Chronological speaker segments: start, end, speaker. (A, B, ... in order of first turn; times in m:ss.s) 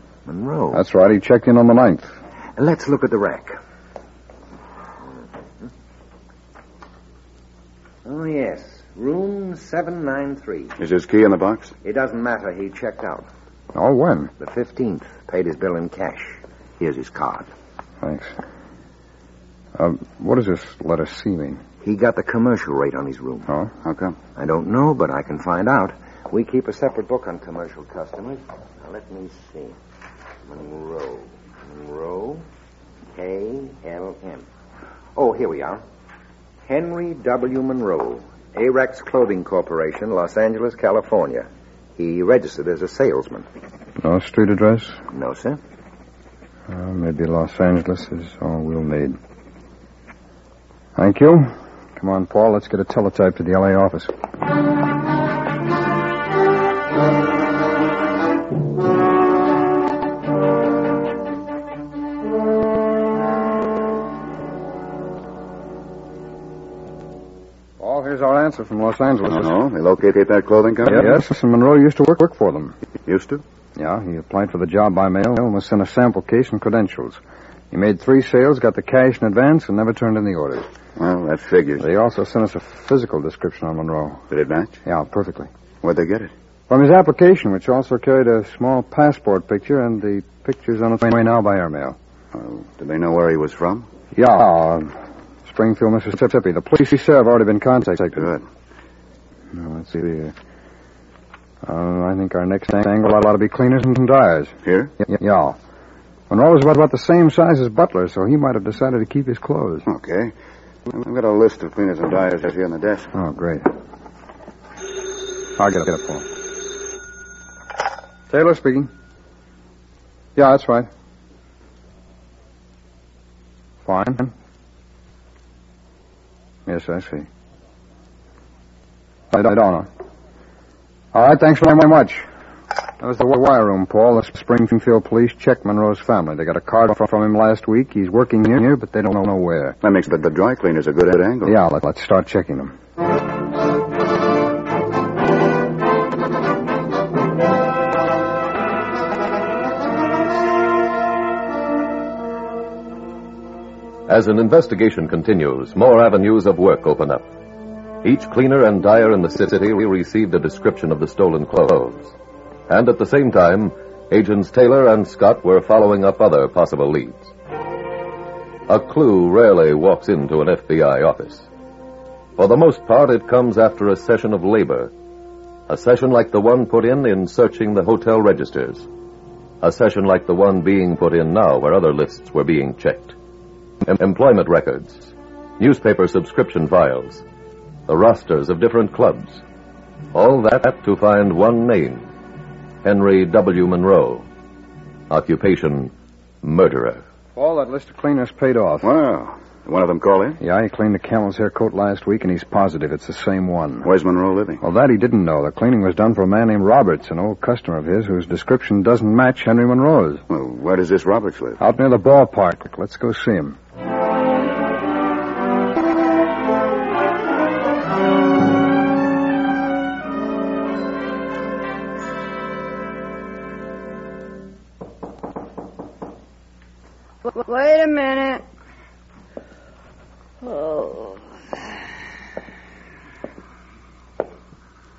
0:00.2-0:00.8 A
0:00.7-0:02.1 B
0:02.6-0:03.6 A
0:08.0-0:10.8 A
0:10.8-0:11.7 C
0:11.8-0:13.2 A
0:13.7-0:14.3 B
0:14.4-0:17.5 A
0:18.0-0:18.3 B
0:19.8-0:21.6 B
0:21.8-0:23.5 A
0:23.8-0:24.2 C
0:24.3-0:29.8 A
0:30.4-0:32.4 A
0:33.1-0:34.4 A
0:35.1-0:35.8 A
0:36.7-0:43.4 A
0:44.0-0:45.0 B
0:45.1-0:45.6 A
0:46.7-0:49.2 B
0:51.0-0:54.1 B
1:07.8-1:09.5 B
1:09.3-1:11.2 C
1:10.8-1:12.7 B
1:13.0-1:13.4 C
1:13.8-1:17.2 B
1:17.7-1:20.7 B
1:21.0-1:21.8 C
1:21.8-1:24.2 B
1:24.3-1:24.8 C
1:24.8-1:25.5 B
1:25.8-1:26.3 C
1:26.7-1:32.0 B
1:32.3-1:33.9 C
1:34.1-1:34.9 B
1:35.4-1:38.3 B
1:38.2-1:38.4 C
1:39.5-1:40.3 B
1:41.6-1:45.6 B
1:44.6-1:44.9 C
1:46.3-1:49.9 B
1:49.9-1:50.3 C
1:50.9-1:53.1 C
1:53.1-1:53.7 B
1:55.6-1:56.3 B
1:58.3-1:58.9 B
2:00.4-2:00.9 B
2:03.8-2:04.3 B
2:06.6-2:07.3 B
2:09.3-2:09.9 B
2:11.1-2:12.2 B
2:13.0-2:19.8 B
2:19.8-2:21.6 C
2:21.4-2:22.7 B
2:34.1-2:37.2 D
2:38.0-2:42.1 D
2:42.7-2:47.3 D
2:48.7-2:51.5 D
2:52.4-2:54.9 D
2:55.7-2:58.9 D
2:59.6-3:03.2 D
3:03.8-3:07.2 D
3:07.9-3:09.4 D
3:10.1-3:12.1 D
3:12.8-3:14.2 D
3:15.1-3:15.9 D
3:16.4-3:17.0 D
3:17.4-3:18.9 B
3:18.8-3:20.4 C
3:20.4-3:23.9 B
3:23.8-3:24.6 C
3:24.6-3:30.2 B
3:30.3-3:31.6 C
3:31.6-3:33.6 B
3:47.2-3:48.4 E
3:50.4-3:51.2 E